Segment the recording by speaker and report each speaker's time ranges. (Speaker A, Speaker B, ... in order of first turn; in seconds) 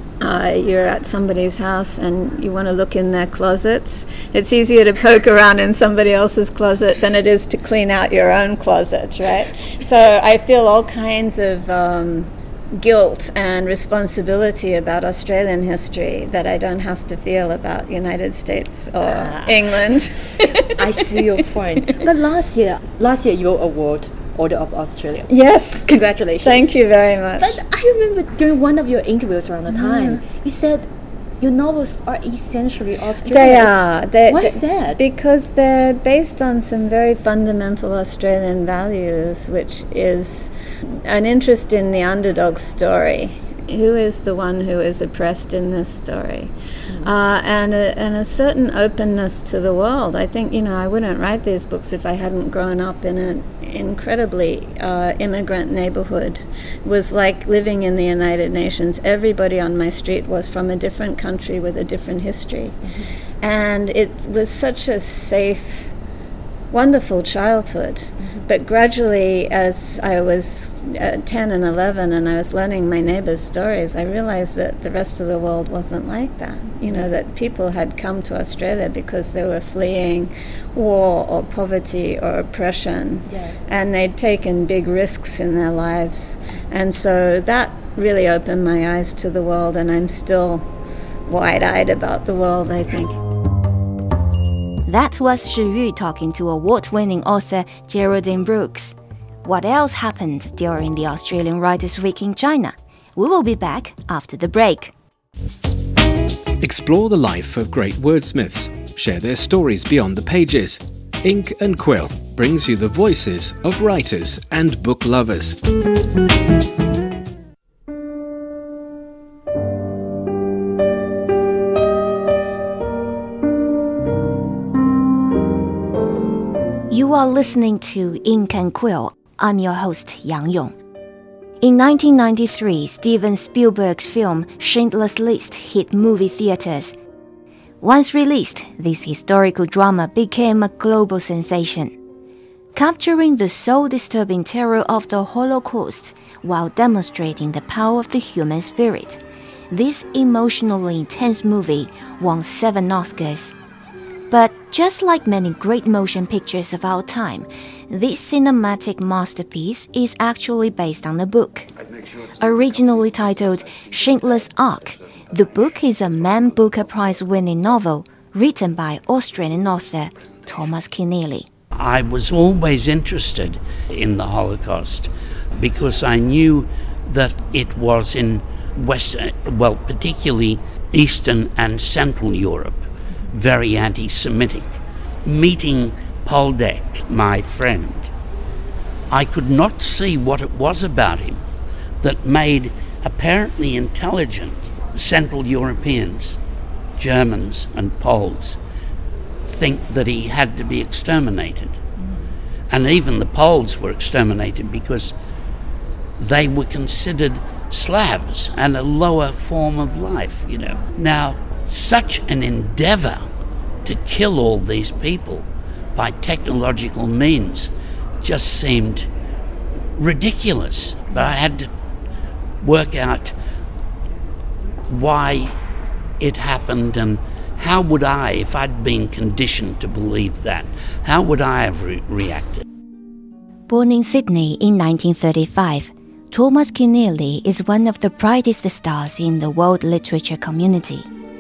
Speaker A: 0.2-22.0, 25.3-25.9, 26.4-27.6, 29.7-30.2, 33.3-62.8, 63.4-65.9, 66.7-90.7, 91.3-93.2
Speaker B: 19.0-19.8, 20.4-25.3, 25.9-26.7, 27.4-30.9, 31.4-35.0, 62.8-63.1, 68.2-68.5, 76.9-77.1, 83.3-83.6, 202.0-202.3
Speaker C: 94.9-104.9, 126.9-130.7, 131.6-137.0, 137.8-141.9, 142.8-149.2, 149.7-153.5, 154.3-161.7, 162.4-171.5, 233.7-241.1
Speaker D: 106.6-115.6
Speaker E: 171.8-188.1, 189.1-191.4, 192.0-196.4, 197.0-198.6, 199.5-201.8, 202.7-205.1, 206.2-213.3, 213.8-217.7, 218.2-219.1, 220.0-221.7, 222.6-223.3, 224.9-225.6, 226.2-232.6